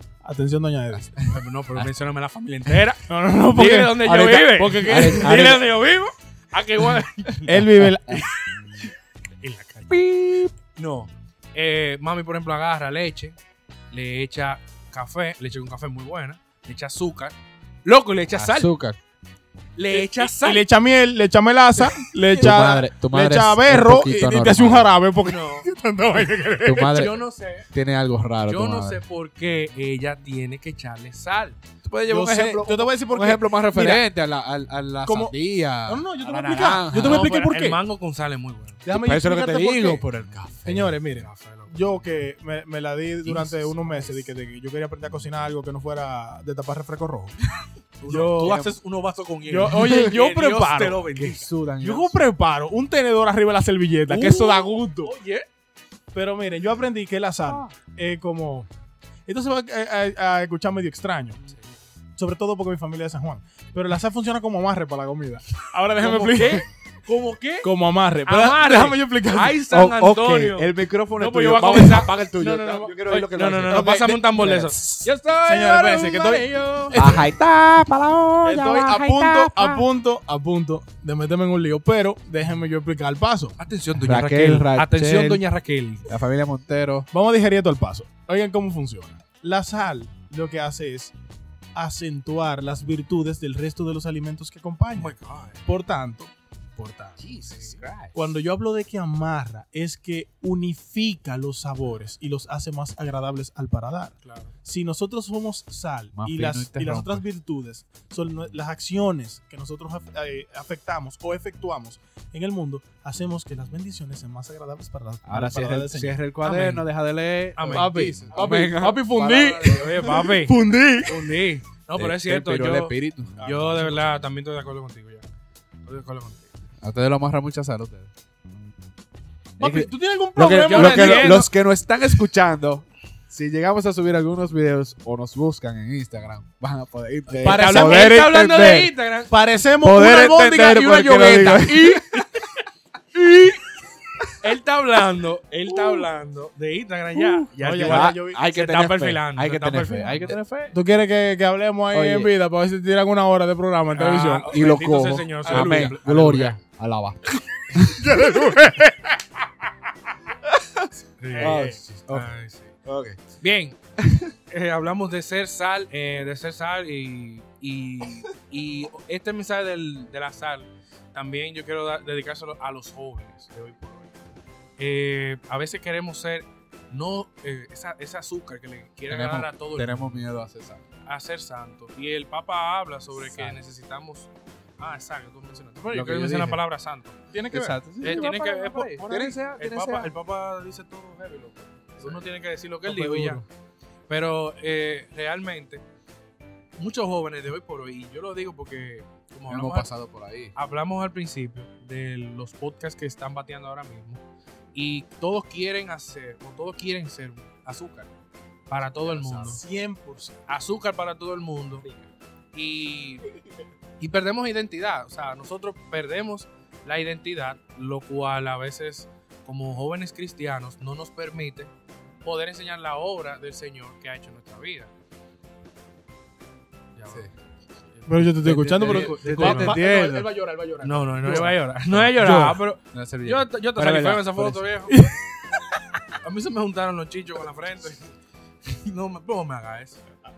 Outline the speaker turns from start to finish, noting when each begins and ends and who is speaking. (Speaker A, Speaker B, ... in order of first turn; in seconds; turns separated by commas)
Speaker A: 0.2-1.1, Speaker B: 0.9-1.9, Speaker C: 1.3-7.6, Speaker A: 3.1-5.6, Speaker B: 4.0-5.7, Speaker A: 7.5-8.3, Speaker B: 7.5-8.2, Speaker C: 9.4-10.0, Speaker B: 9.9-10.5, Speaker C: 10.8-13.4, Speaker C: 13.9-18.7, Speaker B: 18.3-19.0, Speaker C: 19.8-20.6, Speaker A: 19.9-27.1, Speaker B: 22.3-24.9, Speaker C: 25.2-25.7, Speaker B: 26.6-27.2, Speaker C: 26.9-27.7, Speaker B: 27.7-29.0, Speaker C: 28.5-31.6, Speaker B: 31.8-37.3, Speaker A: 32.1-34.1, Speaker A: 35.0-37.8, Speaker C: 36.9-38.8, Speaker A: 38.9-40.0, Speaker B: 38.9-41.0, Speaker A: 40.6-47.4, Speaker C: 41.1-42.0, Speaker C: 43.3-44.2, Speaker C: 48.0-51.5, Speaker A: 48.0-48.7, Speaker B: 48.4-48.7, Speaker A: 49.5-51.1, Speaker B: 49.7-50.0, Speaker B: 51.2-52.2, Speaker A: 51.8-55.1, Speaker C: 54.1-55.5, Speaker A: 56.1-58.7, Speaker A: 59.3-61.4, Speaker A: 62.2-66.7, Speaker C: 66.0-67.7, Speaker A: 67.6-69.6, Speaker C: 68.3-77.0, Speaker B: 69.7-74.8, Speaker A: 73.7-77.3, Speaker B: 76.9-79.9, Speaker A: 78.4-83.6, Speaker C: 83.6-86.1, Speaker B: 84.0-85.4, Speaker B: 86.1-87.1, Speaker A: 87.1-91.1, Speaker A: 91.8-97.2, Speaker C: 94.9-95.6, Speaker B: 97.2-98.2, Speaker C: 97.3-97.9, Speaker A: 98.1-116.2, Speaker C: 104.2-104.5, Speaker B: 106.2-107.2, Speaker B: 115.2-120.1, Speaker C: 116.4-116.9, Speaker C: 117.6-118.8, Speaker A: 117.7-121.3, Speaker C: 119.3-125.2, Speaker B: 122.0-123.8, Speaker A: 123.4-124.2, Speaker C: 125.8-126.5, Speaker B: 126.8-128.1, Speaker A: 129.6-131.5, Speaker B: 129.6-138.9, Speaker C: 130.6-131.5, Speaker A: 137.3-138.4, Speaker C: 137.4-139.3, Speaker A: 139.3-142.1, Speaker B: 139.8-142.2, Speaker C: 141.7-142.5, Speaker C: 143.2-143.6, Speaker C: 144.4-150.4, Speaker B: 147.4-150.8, Speaker A: 147.5-148.4, Speaker A: 150.7-154.6, Speaker B: 151.9-152.3, Speaker C: 153.9-156.6, Speaker B: 154.4-158.2, Speaker A: 155.4-155.9, Speaker A: 157.9-159.1, Speaker B: 160.5-162.3, Speaker C: 161.2-162.8, Speaker A: 161.3-161.8, Speaker B: 162.8-163.2, Speaker C: 163.4-163.8, Speaker B: 164.0-164.3, Speaker C: 164.5-174.1, Speaker C: 174.8-180.2, Speaker B: 179.1-180.8, Speaker C: 181.1-187.2, Speaker B: 183.2-183.6, Speaker B: 185.9-186.6, Speaker A: 187.3-187.8, Speaker B: 187.5-190.1, Speaker C: 188.0-193.4, Speaker A: 189.1-189.4, Speaker A: 192.8-193.4, Speaker C: 194.1-195.8, Speaker C: 196.8-199.9, Speaker B: 199.5-200.5, Speaker C: 200.6-204.2, Speaker C: 204.7-208.1, Speaker C: 208.7-209.6, Speaker B: 208.8-209.5, Speaker A: 209.3-210.4, Speaker C: 210.5-211.9, Speaker C: 212.5-213.2, Speaker C: 214.0-221.7, Speaker C: 222.2-224.9, Speaker C: 227.0-227.3, Speaker C: 227.9-229.8, Speaker A: 228.1-231.6, Speaker B: 228.4-230.3, Speaker C: 230.8-235.0, Speaker B: 231.9-234.7, Speaker A: 232.2-232.6, Speaker A: 234.9-235.2, Speaker C: 236.2-238.1, Speaker C: 238.7-240.0